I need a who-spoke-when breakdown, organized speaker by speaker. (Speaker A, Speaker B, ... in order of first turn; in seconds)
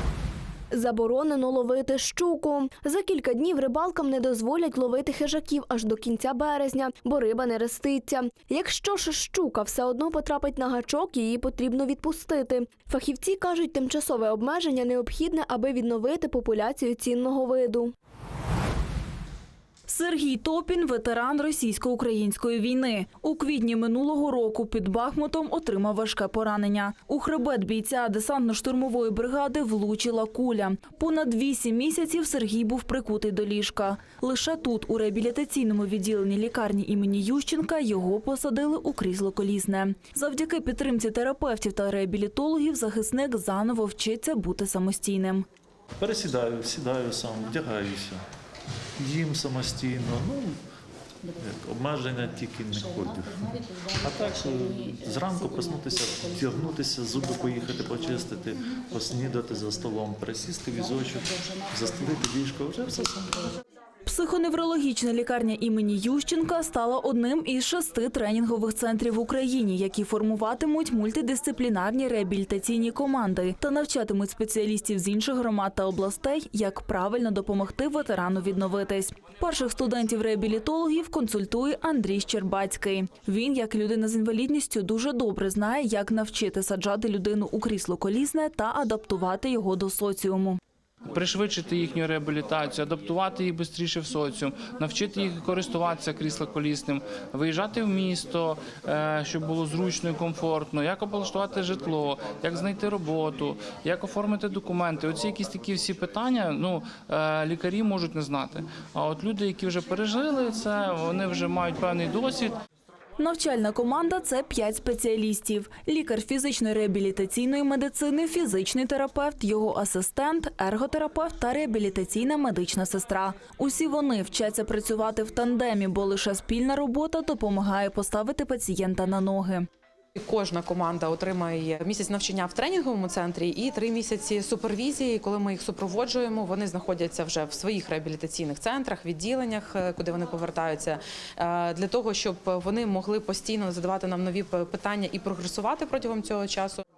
Speaker A: 0.7-17.9
Speaker B: 19.9-45.4, 64.0-90.6, 113.2-129.7
Speaker C: 46.0-48.2, 49.0-50.6, 51.4-63.5
Speaker D: 91.1-112.5
Speaker E: 130.2-146.8